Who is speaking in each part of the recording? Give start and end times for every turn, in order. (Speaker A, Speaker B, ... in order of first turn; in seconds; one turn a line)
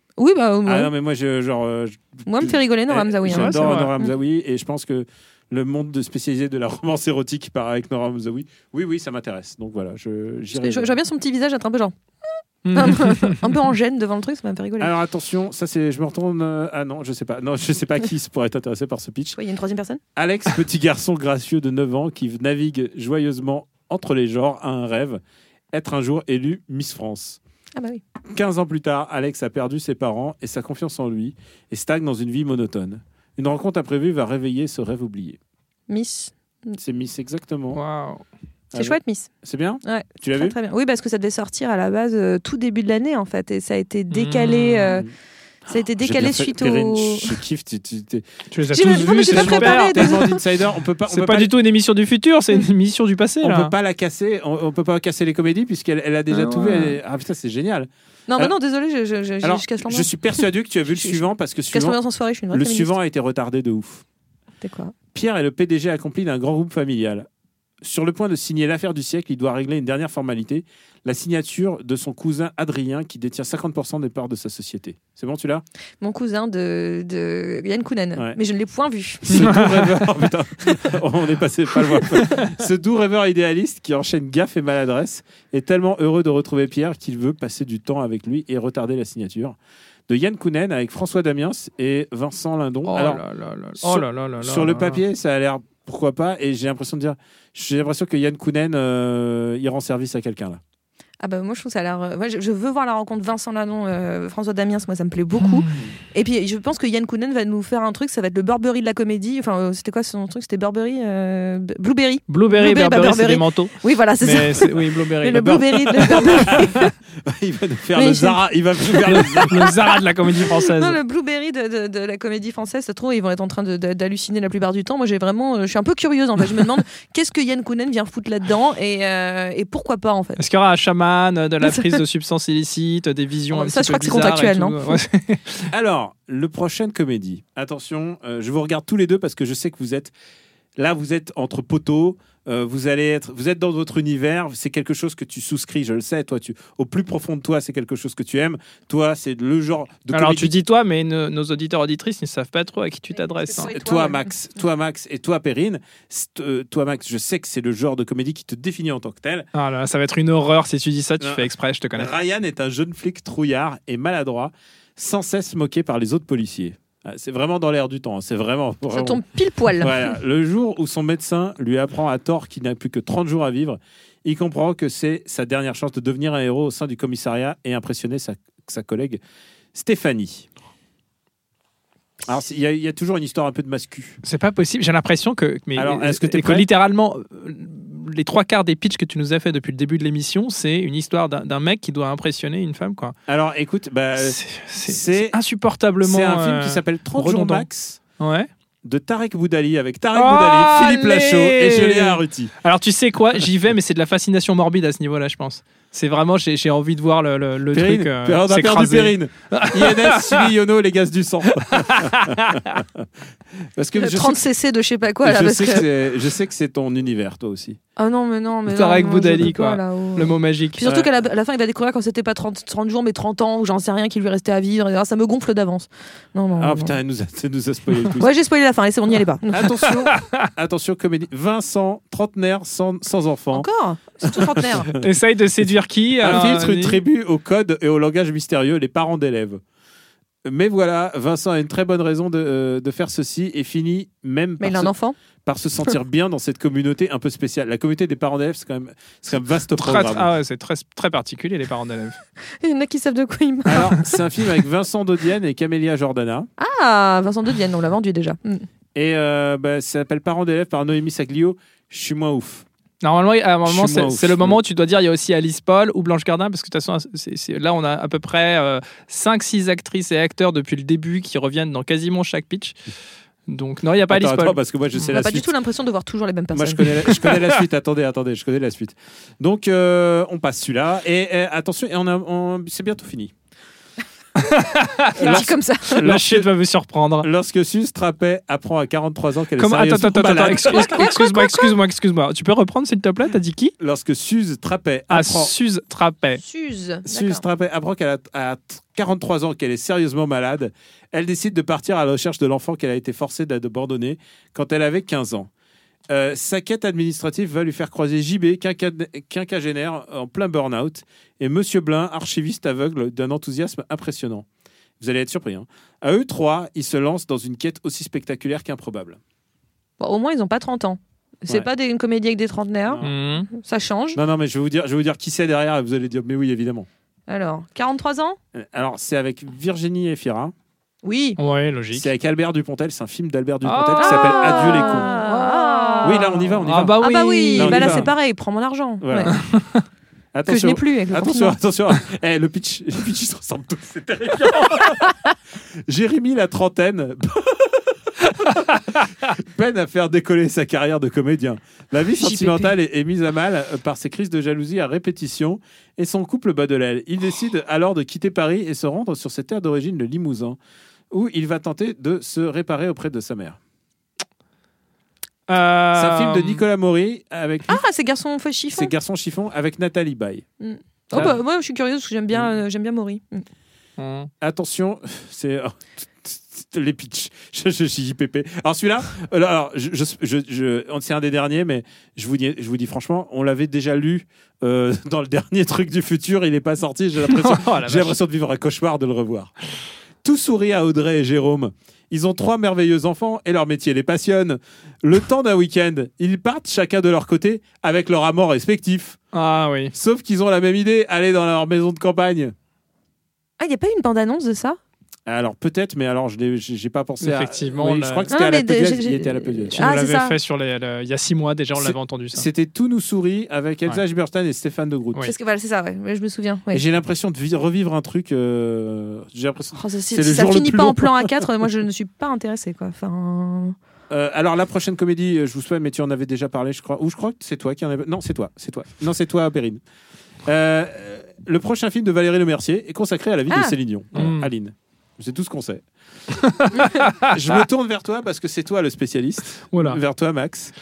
Speaker A: 0.2-0.9
Speaker B: 0.7-10.9
Speaker A: 2.3-4.1
Speaker C: 3.3-3.9
Speaker A: 10.5-11.9
Speaker C: 12.7-13.3
Speaker A: 12.7-14.9
Speaker B: 14.8-19.4
Speaker A: 19.4-20.0
Speaker B: 20.1-25.2
Speaker B: 25.7-27.4
Speaker A: 27.8-28.0
Speaker B: 28.3-35.4
Speaker A: 35.9-36.8
Speaker B: 36.8-37.8
Speaker C: 37.7-38.2
Speaker A: 38.7-39.3
Speaker B: 38.7-40.5
Speaker A: 39.8-45.0
Speaker C: 44.1-44.9
Speaker A: 45.7-47.3
Speaker B: 46.0-48.3
Speaker C: 48.5-50.3
Speaker A: 48.7-50.4
Speaker B: 48.8-51.5
Speaker C: 51.1-53.7
Speaker B: 53.4-58.5
Speaker C: 56.3-56.9
Speaker A: 58.3-60.4
Speaker B: 59.4-62.0
Speaker A: 61.0-62.9
Speaker B: 62.5-64.0
Speaker A: 64.6-64.9
Speaker B: 65.1-67.2
Speaker B: 67.8-75.6
Speaker A: 76.0-79.5
Speaker B: 79.2-89.6
Speaker C: 79.4-79.7
Speaker B: 90.1-93.2
Speaker C: 92.8-95.0
Speaker B: 93.8-100.6
Speaker A: 101.2-116.8
Speaker C: 105.4-105.7
Speaker C: 112.3-116.6
Speaker B: 116.0-116.7
Speaker B: 117.2-119.8
Speaker A: 118.0-119.4
Speaker C: 119.5-121.0
Speaker A: 120.7-130.4
Speaker C: 130.4-135.7
Speaker A: 131.6-132.0
Speaker A: 133.5-135.0
Speaker B: 135.7-140.1
Speaker B: 140.8-150.5
Speaker C: 150.1-153.7
Speaker A: 153.1-154.3
Speaker B: 153.5-159.4
Speaker C: 159.5-162.1
Speaker B: 161.2-169.2
Speaker A: 168.9-170.1
Speaker B: 169.8-179.2
Speaker B: 179.7-180.5
Speaker B: 182.2-184.2
Speaker C: 184.2-193.1
Speaker B: 185.8-186.7
Speaker B: 193.3-195.4
Speaker C: 194.2-197.7
Speaker B: 196.0-198.0
Speaker C: 198.2-198.5
Speaker B: 198.8-202.5
Speaker C: 200.1-210.5
Speaker B: 207.7-212.8
Speaker C: 211.8-212.3
Speaker B: 213.8-214.4
Speaker A: 214.0-215.8
Speaker B: 215.2-217.8
Speaker A: 218.0-226.9
Speaker C: 218.7-220.8
Speaker B: 226.6-228.3
Speaker A: 228.2-229.9
Speaker B: 229.5-233.7
Speaker C: 230.1-230.5
Speaker A: 233.5-234.9
Speaker B: 234.2-235.0
Speaker C: 235.0-237.0
Speaker B: 236.2-239.6
Speaker B: 240.4-244.9
Speaker A: 244.6-245.2
Speaker B: 245.4-250.3
Speaker C: 249.8-252.2
Speaker A: 252.6-253.9
Speaker B: 253.7-256.5
Speaker A: 256.6-258.6
Speaker B: 258.9-262.6
Speaker C: 263.0-272.8
Speaker B: 263.6-264.6
Speaker C: 273.5-274.6
Speaker B: 274.1-275.5
Speaker A: 275.1-277.2
Speaker B: 276.5-283.3
Speaker C: 284.4-287.3
Speaker B: 285.2-286.5
Speaker A: 285.2-286.0
Speaker B: 287.2-291.1
Speaker C: 289.6-293.7
Speaker A: 290.7-291.7
Speaker B: 293.8-295.5
Speaker C: 295.1-296.4
Speaker A: 296.4-297.4
Speaker B: 297.1-305.5
Speaker B: 306.1-314.4
Speaker B: 315.0-319.2
Speaker A: 320.0-324.2
Speaker B: 322.9-323.1
Speaker C: 323.0-323.5
Speaker B: 324.1-326.9
Speaker A: 327.3-328.4
Speaker B: 328.5-330.5
Speaker A: 331.0-331.4
Speaker C: 331.4-332.1
Speaker B: 331.9-335.2
Speaker C: 333.6-336.0
Speaker A: 334.0-336.3
Speaker B: 336.0-337.0
Speaker C: 336.6-338.1
Speaker A: 337.0-339.3
Speaker B: 337.6-338.1
Speaker B: 339.0-339.3
Speaker C: 339.3-339.8
Speaker B: 340.3-345.0
Speaker A: 340.5-341.6
Speaker B: 345.9-348.6
Speaker B: 349.3-360.6
Speaker A: 352.2-352.7
Speaker B: 361.1-363.6
Speaker C: 365.5-366.6
Speaker B: 365.9-367.8
Speaker A: 367.7-368.9
Speaker B: 368.7-370.4
Speaker A: 370.6-373.4
Speaker B: 371.1-371.4
Speaker C: 374.0-374.3
Speaker B: 374.4-389.5
Speaker C: 387.2-388.2
Speaker B: 390.2-399.2
Speaker C: 399.3-399.9
Speaker B: 399.9-402.5
Speaker A: 403.6-404.8
Speaker B: 405.3-409.9
Speaker C: 407.2-408.3
Speaker A: 408.3-410.4
Speaker C: 409.7-412.5
Speaker B: 411.8-415.2
Speaker A: 415.2-416.8
Speaker B: 416.7-421.3
Speaker A: 419.8-423.8
Speaker B: 424.1-429.8
Speaker B: 430.4-435.8
Speaker C: 434.1-434.5
Speaker C: 436.4-437.6
Speaker B: 437.3-440.7
Speaker C: 439.7-440.0